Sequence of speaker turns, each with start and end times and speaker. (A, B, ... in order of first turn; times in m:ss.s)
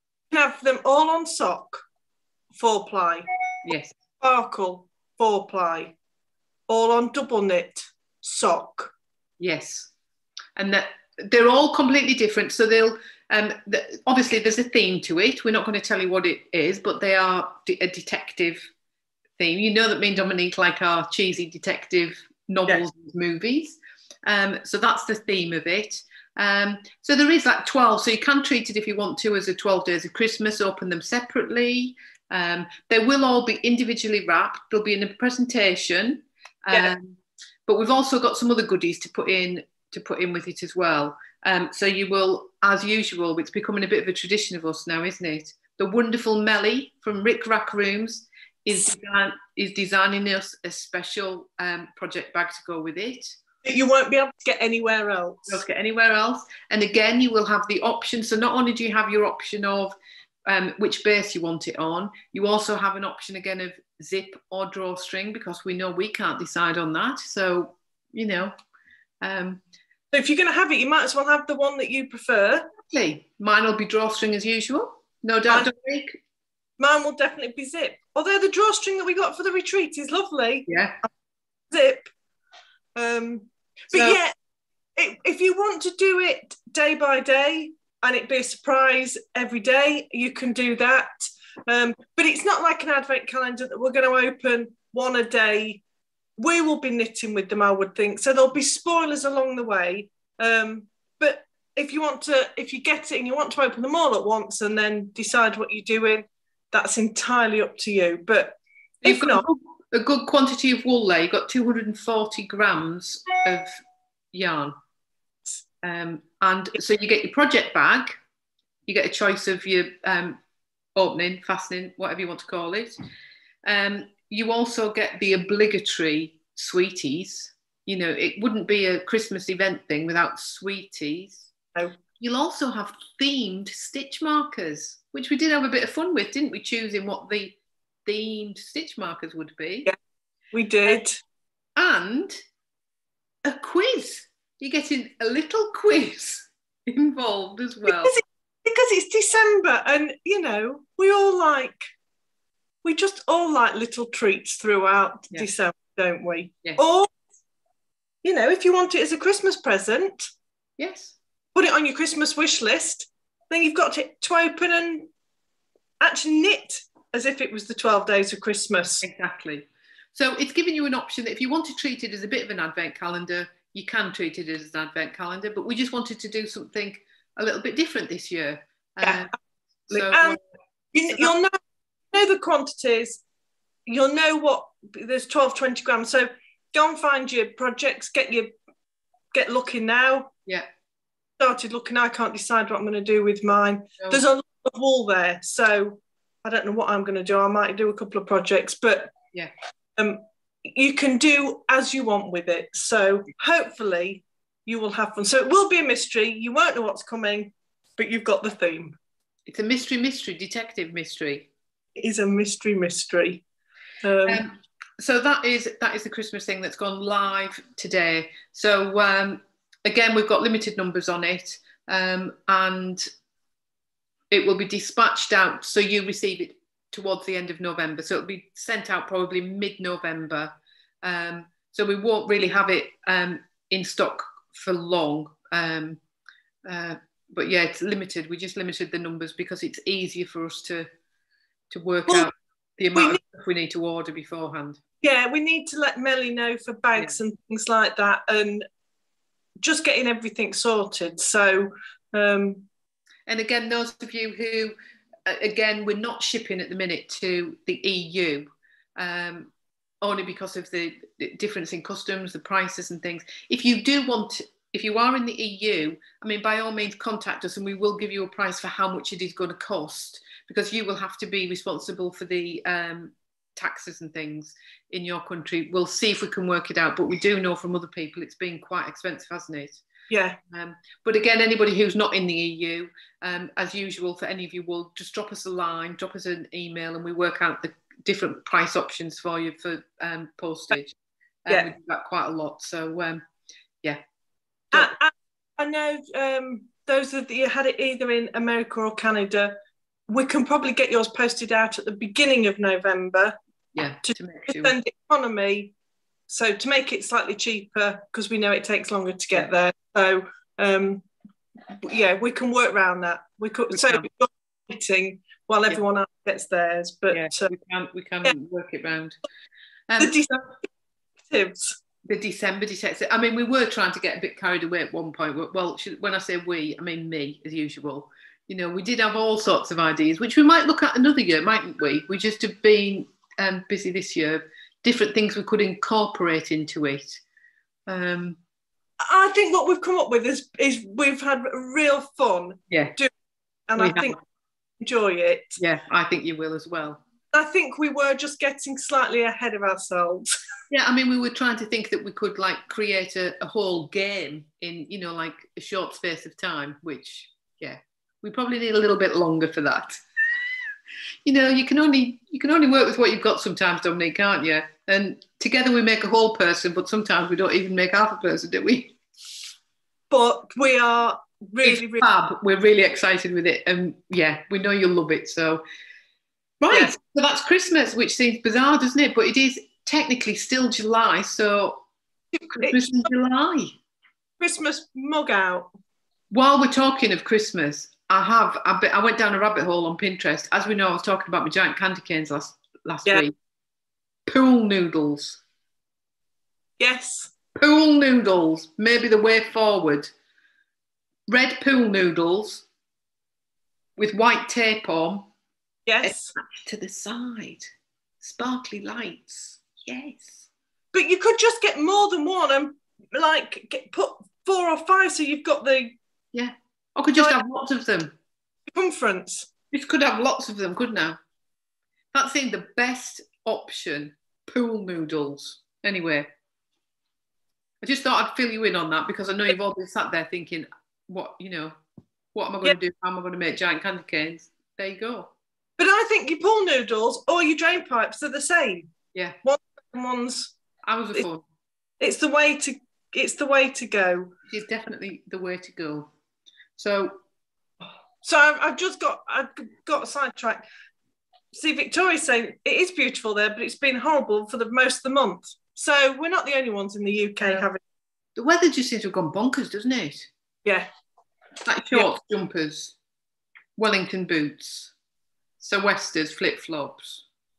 0:00.3-0:01.8 A
0:02.5-0:03.2 A
0:03.6-0:04.0 B
0:04.2-0:05.9 A
0:06.7-0:08.9 A
0:09.4-0:09.9 B
0:10.6-0:18.7 B
0:19.4-0:53.4 B
0:53.6-0:55.6 A
0:55.5-0:59.9 B
1:00.5-1:08.5 B
1:09.2-1:09.6 B
1:10.1-1:12.7 A
1:12.8-1:16.2 B
1:16.8-1:20.7 A
1:20.7-1:21.0 B
1:21.7-1:22.1 A
1:22.9-1:24.3 A
1:23.9-1:24.2 B
1:24.9-1:35.8 A
1:36.4-1:49.4 A
1:49.0-1:53.8 B
1:54.3-1:54.7 B
1:55.8-1:58.2 B
1:58.9-2:00.4 B
2:01.0-2:03.0 B
2:03.6-2:11.5 B
2:12.2-2:19.9 B
2:20.5-2:21.2 A
2:21.8-2:22.4 B
2:23.4-2:28.2 B
2:27.9-2:31.9 A
2:32.8-2:37.1 A
2:38.2-2:40.3 A
2:40.8-2:41.2 B
2:41.5-2:45.1 A
2:46.0-2:49.0 A
2:49.0-2:59.3 B
2:59.0-2:59.3 A
2:59.9-3:00.4 B
2:59.9-3:00.4 A
3:00.9-3:01.6 A
3:02.1-3:03.2 A
3:03.8-3:08.5 A
3:09.3-3:10.3 A
3:11.4-3:19.1 A
3:20.0-3:29.0 A
3:29.5-3:31.5 B
3:32.0-3:33.4 A
3:34.0-3:34.4 A
3:34.2-3:43.1 B
3:44.3-3:56.0 B
3:56.6-4:00.9 B
4:01.7-4:04.8 B
4:02.9-4:03.2 A
4:05.0-4:08.6 A
4:09.6-4:12.7 A
4:13.3-4:14.7 B
4:15.2-4:39.8 B
4:40.1-4:40.4 A
4:40.5-4:53.2 B
4:54.7-4:59.5 A
5:00.1-5:03.4 A
5:03.7-5:04.8 B
5:04.5-5:05.7 A
5:06.3-5:11.0 A
5:11.8-5:17.5 A
5:13.7-5:14.1 B
5:17.1-5:19.2 B
5:19.9-5:20.4 B
5:20.0-5:20.4 A
5:21.2-5:21.8 A
5:22.0-5:37.2 B
5:37.9-5:38.4 B
5:39.0-5:43.1 A
5:42.7-5:42.9 B
5:43.7-5:44.2 A
5:43.8-5:44.2 B
5:44.8-5:45.6 A
5:45.6-5:47.0 B
5:47.3-5:50.3 A
5:50.7-6:00.0 B
6:01.2-6:09.0 B
6:10.1-6:12.1 A
6:11.6-6:15.6 B
6:16.6-6:21.8 B
6:22.4-6:22.9 A
6:22.5-6:23.8 B
6:24.4-6:25.7 A
6:26.3-6:33.3 B
6:34.3-6:35.4 B
6:36.8-6:37.3 A
6:37.6-6:40.1 B
6:41.3-6:42.6 B
6:44.0-6:45.3 B
6:45.8-6:46.3 A
6:46.0-6:47.7 B
6:48.2-6:50.4 B
6:50.9-6:56.0 A
6:56.3-6:58.1 B
6:58.7-6:59.5 A
6:59.7-7:01.2 B
7:02.1-7:06.3 B
7:07.8-7:11.8 B
7:12.3-7:15.3 B
7:15.8-7:18.9 A
7:19.4-7:20.5 A
7:20.8-7:21.4 B
7:22.0-7:24.3 A
7:24.5-7:26.1 B
7:26.8-7:27.2 B
7:27.8-7:30.6 A
7:31.5-7:37.8 A
7:38.4-7:40.3 B
7:41.6-7:43.0 B
7:43.8-7:44.9 B
7:45.6-7:47.2 B